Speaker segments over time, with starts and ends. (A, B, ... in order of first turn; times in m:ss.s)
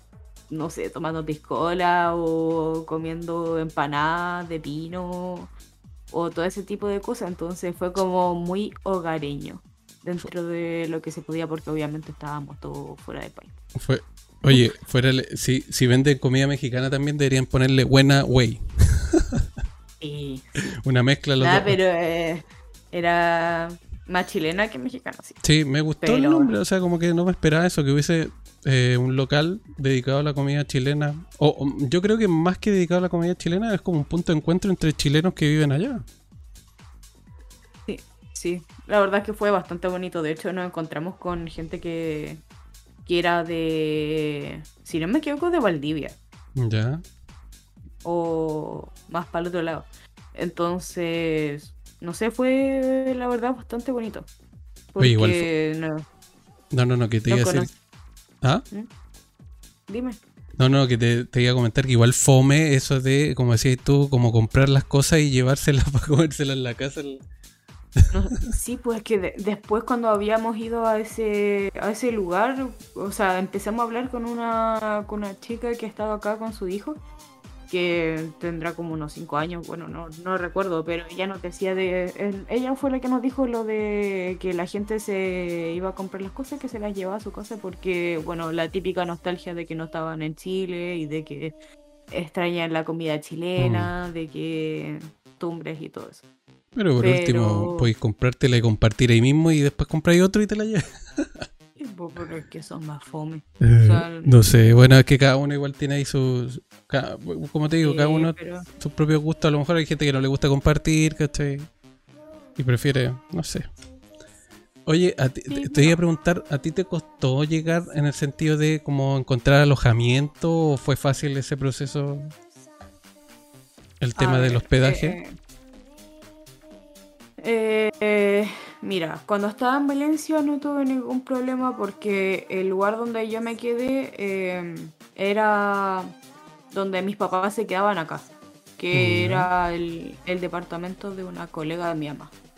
0:00.5-0:05.5 A
0:06.1-0:13.6 A
0:13.8-0:19.4 B
0:20.0-0:20.5 A
0:20.6-0:21.8 B
0:21.4-0:25.4 A
0:25.4-0:36.0 B
0:26.0-0:26.5 A
0:37.9-0:42.4 A
0:43.1-0:46.2 A
0:46.6-0:47.0 B
0:48.0-0:54.3 A
0:54.9-0:56.0 A
0:55.0-0:55.5 B
0:56.7-0:57.7 B
0:57.3-0:57.7 A
0:59.9-1:00.2 A
1:00.6-1:07.2 B
1:08.1-1:17.0 A
1:17.7-1:31.6 A
1:32.1-1:36.2 A
1:33.6-1:33.9 B
1:36.8-1:41.5 B
1:37.0-1:37.9 A
1:41.8-1:44.4 A
1:43.6-1:51.7 B
1:47.8-1:48.7 A
1:52.6-1:53.7 B
1:54.9-2:02.3 B
1:55.5-1:56.0 A
2:04.0-2:05.2 B
2:04.2-2:05.4 A
2:07.4-2:16.1 A
2:16.7-2:22.4 A
2:18.9-2:19.5 B